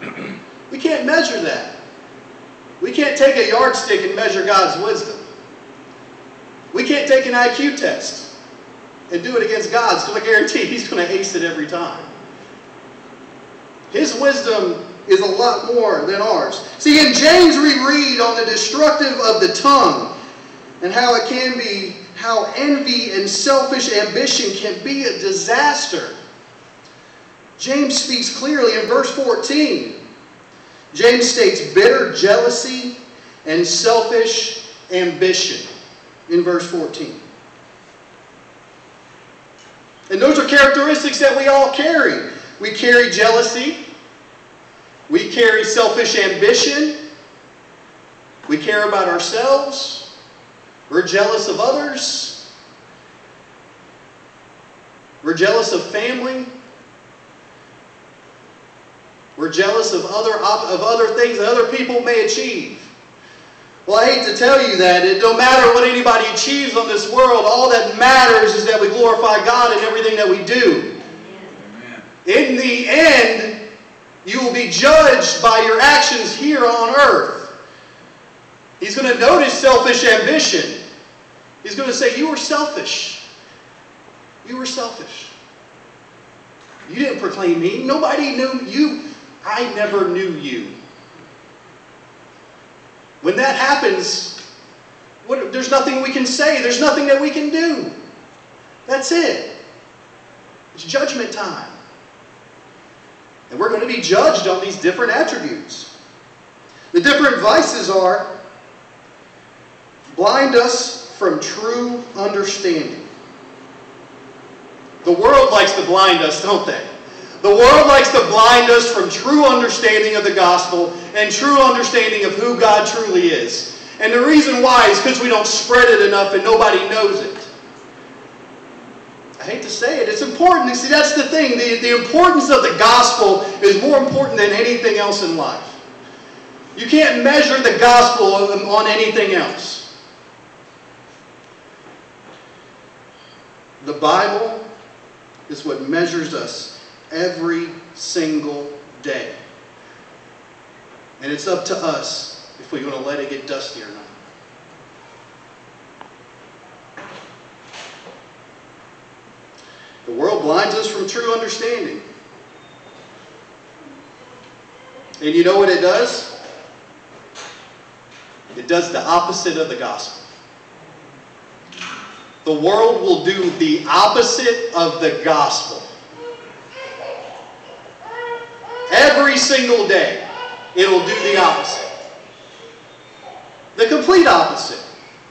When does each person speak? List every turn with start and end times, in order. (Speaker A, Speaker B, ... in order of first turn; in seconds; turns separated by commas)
Speaker A: 0.7-1.8, Speaker A: 2.8-5.2, Speaker A: 6.7-8.3, Speaker A: 9.1-12.1, Speaker A: 13.9-20.1, Speaker A: 20.8-26.2, Speaker A: 27.6-30.0, Speaker A: 30.9-35.7, Speaker A: 36.3-37.2, Speaker A: 40.1-43.8, Speaker A: 45.1-47.0, Speaker A: 48.5-50.1, Speaker A: 50.9-52.5, Speaker A: 55.2-56.5, Speaker A: 59.4-62.9, Speaker A: 63.9-70.9, Speaker A: 72.2-73.6, Speaker A: 74.2-77.5, Speaker A: 78.8-80.8, Speaker A: 81.6-83.2, Speaker A: 84.4-85.3, Speaker A: 86.8-90.7, Speaker A: 93.2-94.4, Speaker A: 95.2-98.0, Speaker A: 98.8-99.5, Speaker A: 100.7-101.8, Speaker A: 103.5-105.9, Speaker A: 106.9-108.3, Speaker A: 110.1-113.1, Speaker A: 115.0-127.5, Speaker A: 129.4-135.8, Speaker A: 136.7-139.9, Speaker A: 143.8-144.6, Speaker A: 145.5-149.4, Speaker A: 151.2-154.1, Speaker A: 160.0-162.0, Speaker A: 165.2-166.3, Speaker A: 168.5-170.2, Speaker A: 172.4-175.9, Speaker A: 178.9-181.8, Speaker A: 183.7-184.8